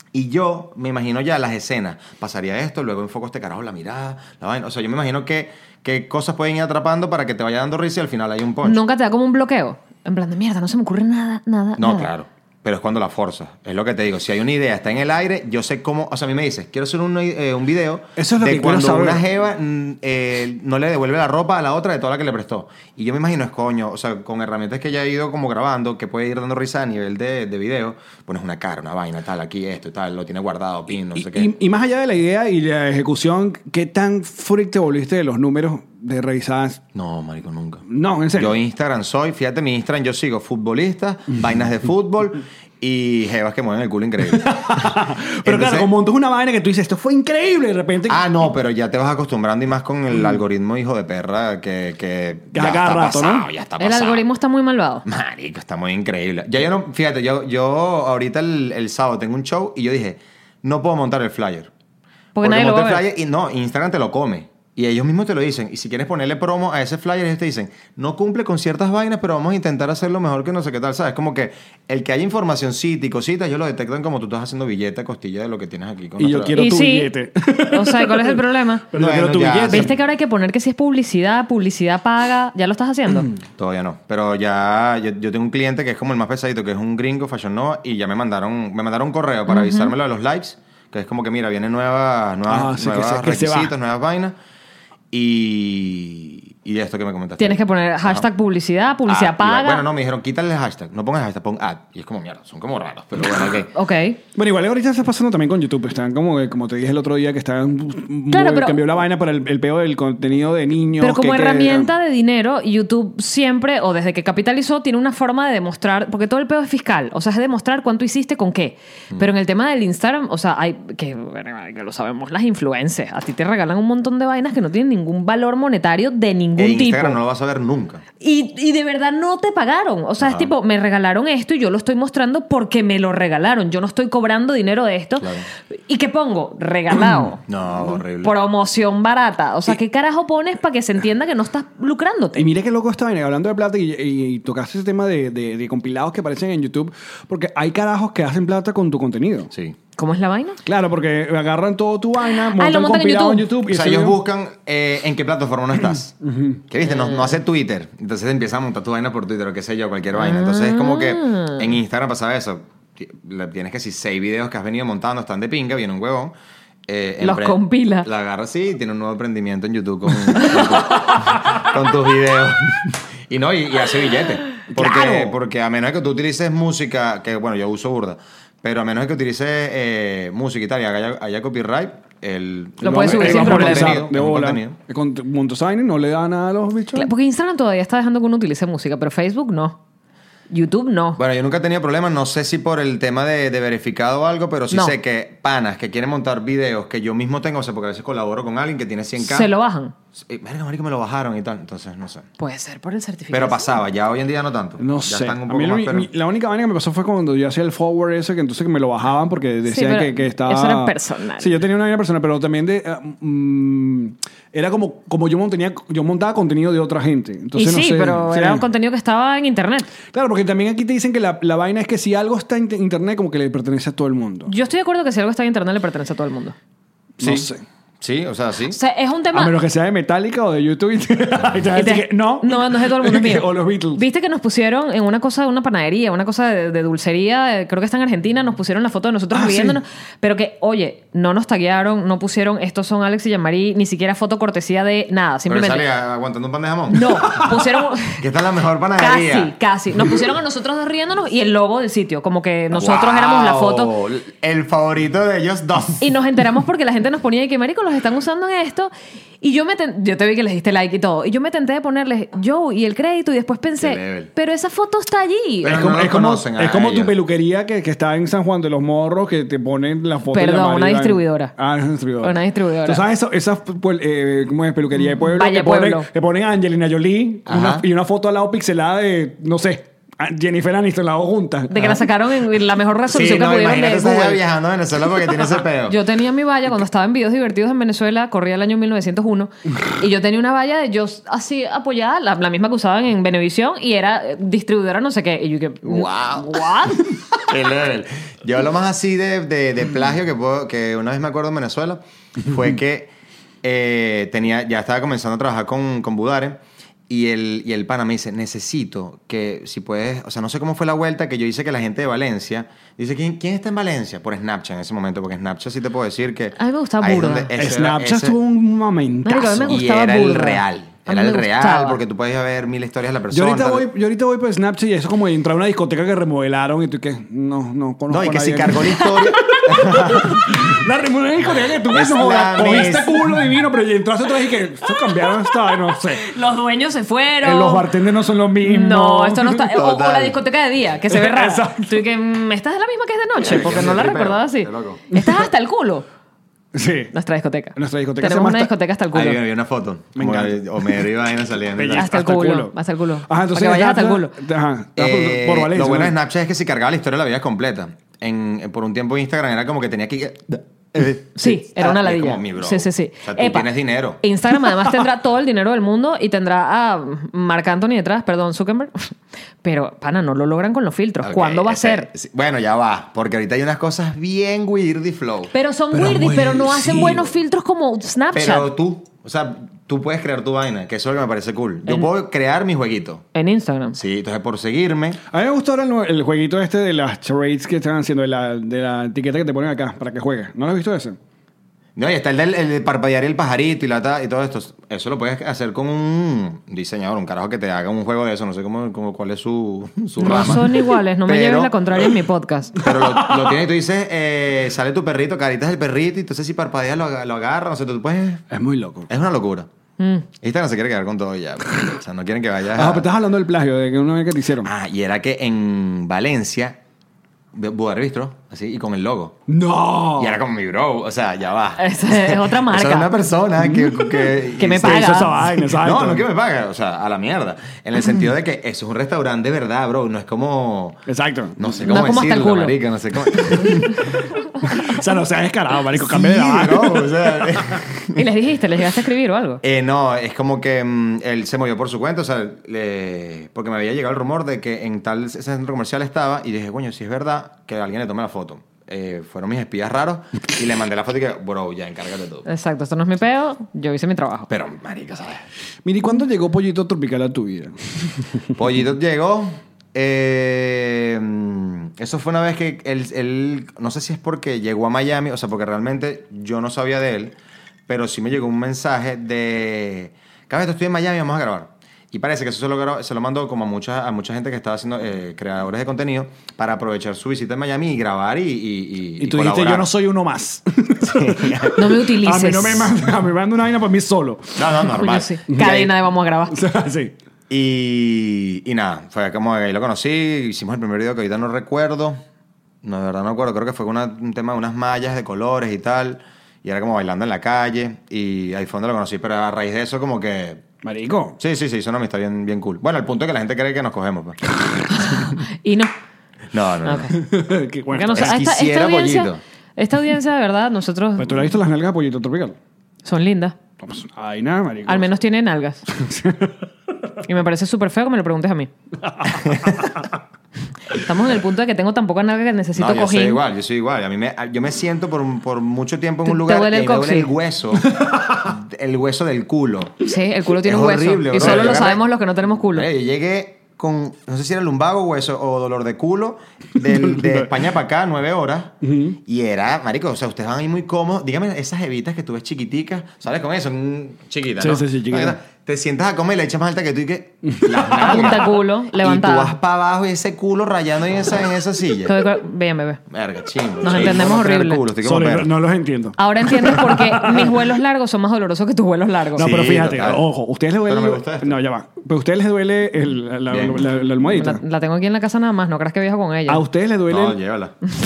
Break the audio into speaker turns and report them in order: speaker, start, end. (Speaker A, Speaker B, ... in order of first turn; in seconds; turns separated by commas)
Speaker A: 0.1-8.8, Speaker B: 8.6-12.1, Speaker A: 11.8-31.5, Speaker C: 18.2-19.2, Speaker C: 31.1-36.8, Speaker A: 36.9-45.9, Speaker C: 37.9-38.6, Speaker C: 44.3-48.2, Speaker A: 48.1-54.2, Speaker C: 52.5-53.5, Speaker B: 53.8-55.0, Speaker A: 55.0-61.7, Speaker B: 62.4-63.0, Speaker A: 62.4-76.6, Speaker C: 76.2-79.9, Speaker B: 76.5-77.1, Speaker B: 77.7-78.8, Speaker A: 78.9-79.9, Speaker B: 79.7-83.3, Speaker C: 83.1-83.3, Speaker A: 83.6-94.3, Speaker B: 89.5-89.9, Speaker C: 92.5-93.7, Speaker A: 95.1-98.3, Speaker B: 97.4-99.8, Speaker A: 99.1-103.7, Speaker B: 103.7-104.2, Speaker C: 104.3-111.9, Speaker B: 108.3-108.8, Speaker B: 111.0-127.2, Speaker A: 126.6-128.0, Speaker B: 128.2-137.4, Speaker A: 130.2-130.5, Speaker A: 135.2-135.4, Speaker C: 137.0-137.3, Speaker A: 137.4-138.3, Speaker B: 138.2-142.5, Speaker C: 142.3-149.5, Speaker A: 149.5-149.8, Speaker B: 150.0-150.6, Speaker C: 150.7-154.2, Speaker B: 152.2-153.5, Speaker A: 153.7-156.1, Speaker C: 156.2-156.6, Speaker A: 156.7-166.3, Speaker B: 156.8-157.3, Speaker B: 160.1-161.7, Speaker A: 166.9-184.8, Speaker B: 167.2-168.1, Speaker B: 170.4-171.2, Speaker C: 174.7-175.4, Speaker B: 182.8-184.1, Speaker C: 182.8-187.1, Speaker B: 186.9-189.8, Speaker B: 190.5-191.2, Speaker A: 191.2-199.5, Speaker B: 194.7-194.9, Speaker B: 199.2-199.9, Speaker A: 200.2-202.3, Speaker B: 202.4-203.7, Speaker A: 203.3-206.1, Speaker C: 204.8-218.7, Speaker B: 209.7-211.6, Speaker B: 217.5-219.9, Speaker C: 220.1-224.5, Speaker B: 224.4-226.5, Speaker C: 227.2-227.6, Speaker A: 227.2-227.5, Speaker A: 228.0-228.8, Speaker B: 228.7-229.5, Speaker C: 229.3-234.0, Speaker B: 231.7-245.9, Speaker C: 239.3-239.8, Speaker A: 245.5-247.5, Speaker B: 246.9-248.2, Speaker A: 248.1-249.5, Speaker B: 249.0-253.9, Speaker A: 252.7-256.1, Speaker B: 256.0-265.9, Speaker A: 263.8-264.3, Speaker A: 265.6-267.1, Speaker C: 265.7-282.0, Speaker B: 270.3-271.5, Speaker B: 272.2-273.0, Speaker B: 275.0-276.1, Speaker A: 277.4-277.8, Speaker B: 281.7-284.4, Speaker A: 283.1-286.0, Speaker B: 285.9-297.1, Speaker A: 295.8-303.1, Speaker A: 303.6-318.4, Speaker B: 316.6-317.5, Speaker C: 317.6-319.8, Speaker B: 319.2-322.0, Speaker A: 319.6-323.9, Speaker C: 323.3-336.3, Speaker A: 328.1-330.6, Speaker B: 328.9-329.6, Speaker A: 331.9-333.3, Speaker B: 334.9-337.9, Speaker C: 337.4-339.6, Speaker B: 338.6-346.0, Speaker A: 339.6-340.4, Speaker C: 341.1-342.0, Speaker A: 343.4-345.0, Speaker C: 345.1-345.4, Speaker C: 346.7-347.1, Speaker B: 347.1-349.4, Speaker C: 347.8-348.7, Speaker A: 349.1-352.1, Speaker C: 350.1-351.1, Speaker C: 351.8-352.7, Speaker B: 352.0-354.3, Speaker C: 353.3-356.1, Speaker A: 355.0-364.2, Speaker B: 361.4-363.7, Speaker B: 364.2-369.1, Speaker B: 369.6-372.1, Speaker A: 371.2-375.5, Speaker B: 375.5-378.7, Speaker C: 375.9-377.3, Speaker A: 378.3-383.2, Speaker B: 383.3-384.0, Speaker A: 383.9-385.2, Speaker C: 385.3-391.2, Speaker A: 391.9-400.7, Speaker B: 400.2-402.8, Speaker A: 401.2-402.0, Speaker A: 402.8-408.4, Speaker C: 402.9-403.5, Speaker C: 408.5-409.1, Speaker A: 409.1-409.7, Speaker B: 410.0-410.2, Speaker A: 410.4-413.1, Speaker C: 412.7-414.7, Speaker A: 414.6-416.8, Speaker A: 417.5-419.4, Speaker C: 419.5-420.4, Speaker A: 420.2-431.0, Speaker B: 421.8-423.1, Speaker C: 423.6-426.2, Speaker B: 424.6-425.3, Speaker C: 431.1-431.6, Speaker A: 431.6-434.2, Speaker B: 431.8-432.8, Speaker C: 434.6-437.8, Speaker A: 436.0-438.2, Speaker B: 438.1-439.6, Speaker A: 439.6-452.4, Speaker B: 452.4-454.5, Speaker A: 454.5-455.4, Speaker C: 455.8-458.4, Speaker A: 458.5-467.3, Speaker A: 467.9-479.9, Speaker C: 479.2-484.6, Speaker A: 481.0-481.8, Speaker B: 481.8-482.9, Speaker A: 484.6-485.9, Speaker B: 484.9-486.6, Speaker C: 485.5-485.9, Speaker C: 486.5-487.1, Speaker A: 487.5-492.2, Speaker A: 492.8-500.6, Speaker C: 500.8-501.4, Speaker A: 501.4-505.3, Speaker B: 504.9-505.9, Speaker A: 506.5-507.1, Speaker B: 506.8-507.1, Speaker C: 507.1-508.4, Speaker B: 507.9-511.5, Speaker A: 508.1-509.4, Speaker C: 511.2-512.5, Speaker B: 513.0-513.5, Speaker C: 513.8-515.1, Speaker B: 514.9-515.8, Speaker C: 515.9-516.5, Speaker B: 517.2-518.7, Speaker C: 519.0-520.1, Speaker A: 519.4-519.9, Speaker B: 520.9-523.4, Speaker A: 522.7-530.0, Speaker B: 526.2-527.3, Speaker B: 530.0-532.9, Speaker A: 530.6-532.0, Speaker C: 531.4-531.9, Speaker A: 532.7-552.1, Speaker C: 537.1-537.4, Speaker C: 538.8-539.2, Speaker C: 544.6-545.4, Speaker C: 547.4-548.1, Speaker B: 547.9-549.5, Speaker B: 552.0-553.0, Speaker A: 553.1-555.5, Speaker B: 553.8-554.8, Speaker C: 555.0-557.6, Speaker B: 556.2-559.5, Speaker C: 559.4-564.6, Speaker A: 559.4-560.2, Speaker A: 560.8-561.6, Speaker A: 563.5-563.9, Speaker B: 564.2-566.6, Speaker C: 566.5-567.4, Speaker A: 567.1-567.7